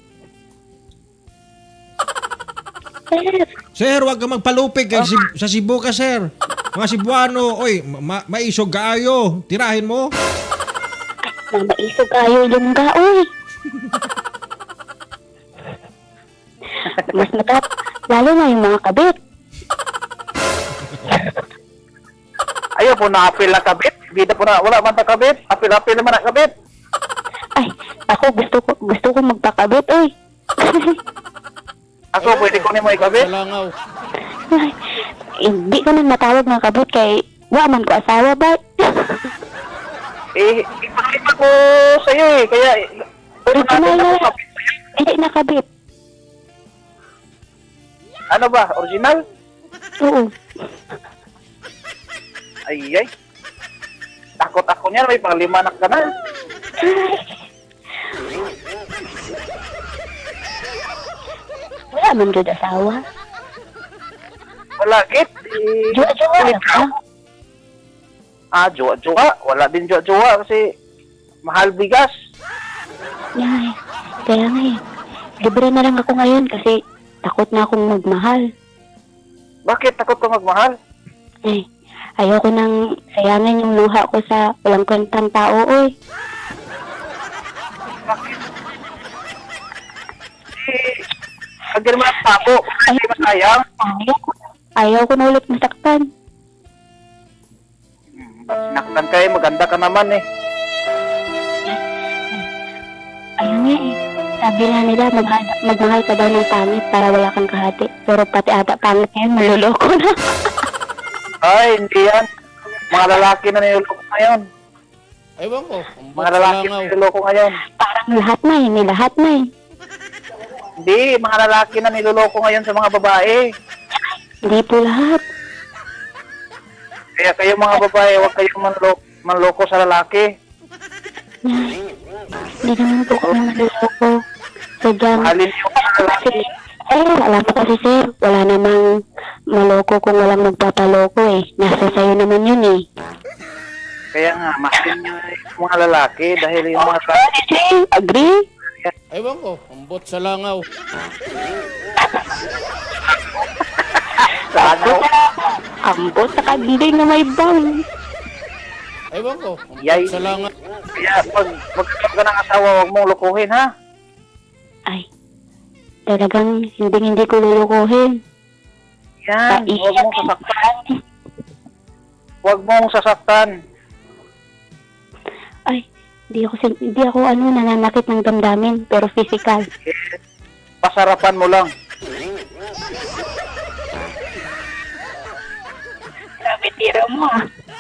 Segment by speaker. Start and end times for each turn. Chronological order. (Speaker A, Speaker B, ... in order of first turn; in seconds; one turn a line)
Speaker A: 3.1-3.5
Speaker B: 3.8-6.2
Speaker B: 6.7-10.1
Speaker A: 11.3-13.2
Speaker C: 16.9-17.3
Speaker A: 17.1-19.1
Speaker C: 22.8-26.5
Speaker A: 27.6-31.0
Speaker C: 32.1-33.3
Speaker D: 32.2-33.7
Speaker A: 34.5-34.8
Speaker A: 35.4-39.3
Speaker C: 40.4-42.7
Speaker A: 43.5-44.4
Speaker C: 43.5-44.3
Speaker A: 44.9-45.6
Speaker C: 48.3-49.2
Speaker A: 50.0-50.3
Speaker C: 52.7-53.1
Speaker C: 54.4-56.0
Speaker A: 56.8-57.4
Speaker A: 61.9-63.0
Speaker C: 64.8-66.8
Speaker A: 65.9-66.9
Speaker C: 68.5-70.6
Speaker C: 71.5-72.1
Speaker A: 73.4-73.7
Speaker A: 74.2-74.7
Speaker A: 75.4-78.4
Speaker C: 79.7-80.7
Speaker A: 82.2-85.9
Speaker C: 88.1-88.4
Speaker C: 90.6-90.9
Speaker C: 91.7-93.6
Speaker A: 92.1-93.3
Speaker A: 93.8-96.0
Speaker C: 98.2-100.2
Speaker A: 101.7-102.5
Speaker A: 103.4-110.5
Speaker C: 111.4-112.2
Speaker C: 112.9-114.4
Speaker D: 115.4-116.9
Speaker C: 116.2-117.5
Speaker A: 117.8-119.4
Speaker C: 120.8-123.4
Speaker A: 124.0-125.2
Speaker C: 127.2-130.2
Speaker A: 131.4-131.8
Speaker A: 132.6-134.1
Speaker A: 134.8-138.8
Speaker C: 135.2-136.3
Speaker A: 139.5-142.8
Speaker C: 144.1-147.2
Speaker A: 146.7-148.4
Speaker D: 149.1-150.6
Speaker A: 152.0-152.4
Speaker C: 154.2-155.0
Speaker A: 154.2-157.8
Speaker D: 159.1-160.5
Speaker C: 159.8-160.1
Speaker C: 160.9-163.6
Speaker A: 166.1-168.1
Speaker C: 169.2-170.5
Speaker A: 169.5-171.0
Speaker C: 172.4-173.5
Speaker A: 175.7-179.7
Speaker C: 179.9-180.2
Speaker C: 180.8-181.7
Speaker A: 186.4-187.4